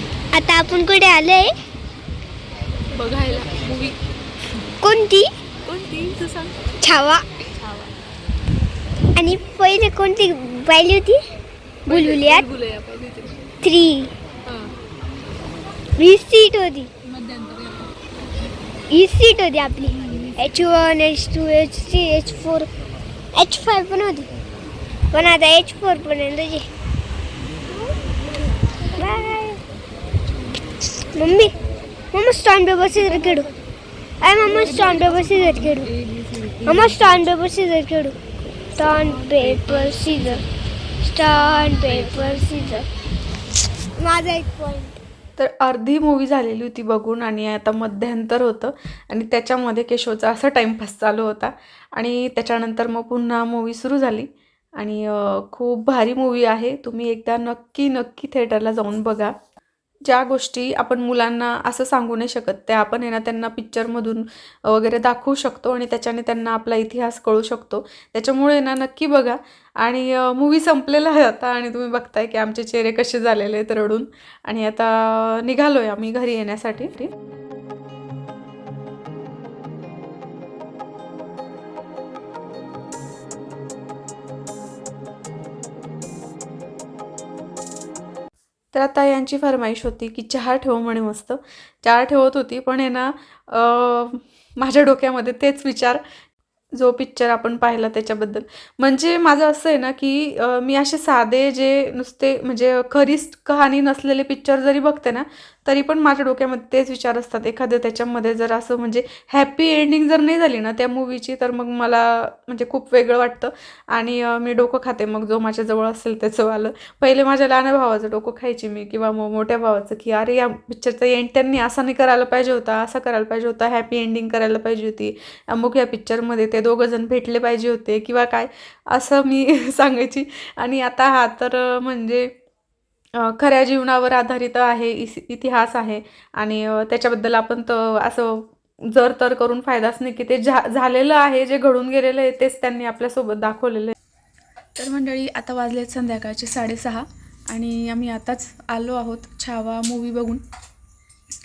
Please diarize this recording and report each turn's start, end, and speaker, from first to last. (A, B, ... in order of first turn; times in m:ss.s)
0:00.3-0:01.5 A
0:02.9-0:04.0 B
0:04.8-0:05.3 A
0:05.7-0:06.6 B
0:06.8-0:07.3 A
0:07.6-0:07.9 B
0:09.2-0:11.2 A
0:11.9-0:13.4 B
0:11.9-0:12.5 A
0:13.6-0:14.2 A
0:14.5-0:14.7 B
0:16.0-0:16.9 A
0:17.1-0:17.9 B
0:18.9-0:22.7 A
0:23.3-0:24.3 A
0:25.1-0:26.7 A
0:28.9-0:29.6 A
0:31.2-0:31.5 A
0:32.1-0:33.5 A
0:34.2-0:36.0 A
0:36.6-0:38.2 A
0:38.8-0:40.4 A
0:41.0-0:42.9 A
0:44.0-0:45.0 A
0:45.4-0:59.4 B
1:00.0-1:17.1 B
1:28.7-1:36.0 B
1:36.7-2:12.3 B
2:13.2-2:24.0 B
2:24.8-2:30.4 B